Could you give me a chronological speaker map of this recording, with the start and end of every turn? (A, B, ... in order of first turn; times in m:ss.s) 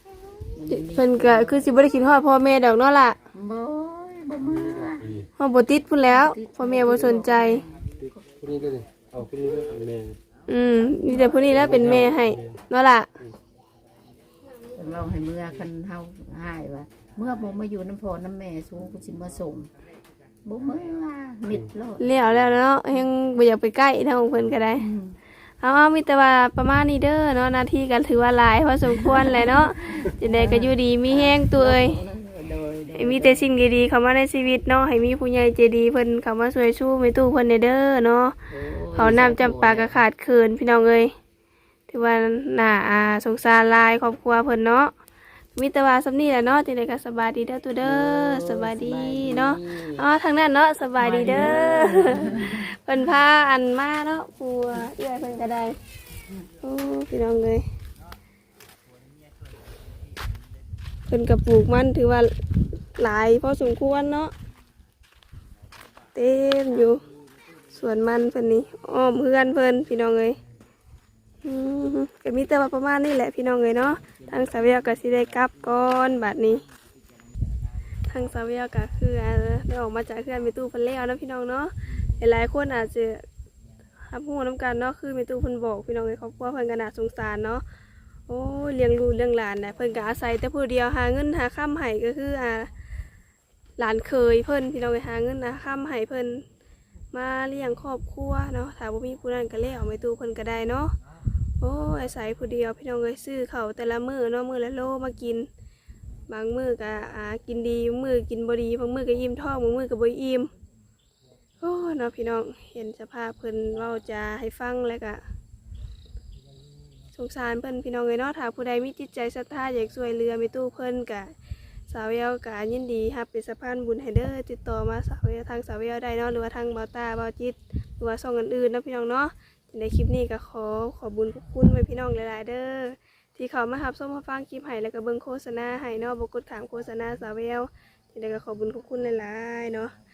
0:00.6-0:01.7 A
0:00.7-0:03.2 B
0:03.3-0:05.2 A
0:04.5-0:05.3 C
0:05.4-0:07.6 B
0:06.1-0:08.2 A
0:08.0-0:10.2 C
0:10.5-0:13.1 B
0:11.1-0:12.1 A
0:11.4-0:12.6 C
0:14.7-0:19.7 A
0:20.4-0:22.1 A
0:22.0-0:24.9 B
0:24.8-0:25.2 A
0:25.6-0:32.0 B
0:28.8-0:33.5 A
0:33.0-0:38.4 B
0:38.5-0:40.0 A
0:39.0-0:41.1 B
0:41.9-0:44.9 B
0:45.6-0:55.8 B
0:47.8-0:50.1 A
0:51.0-0:52.7 A
0:56.6-0:57.6 B
1:01.1-1:02.3 B
1:03.0-1:04.3 B
1:06.2-1:07.0 B
1:07.7-1:10.4 B
1:11.4-1:16.6 B
1:18.1-1:23.2 B
1:24.1-1:27.6 B
1:28.3-1:32.7 B
1:33.8-1:36.4 B
1:37.1-1:40.9 B
1:41.6-1:45.5 B
1:46.3-1:50.5 B
1:51.6-1:55.2 B
1:57.1-2:01.3 B
2:01.9-2:19.9 B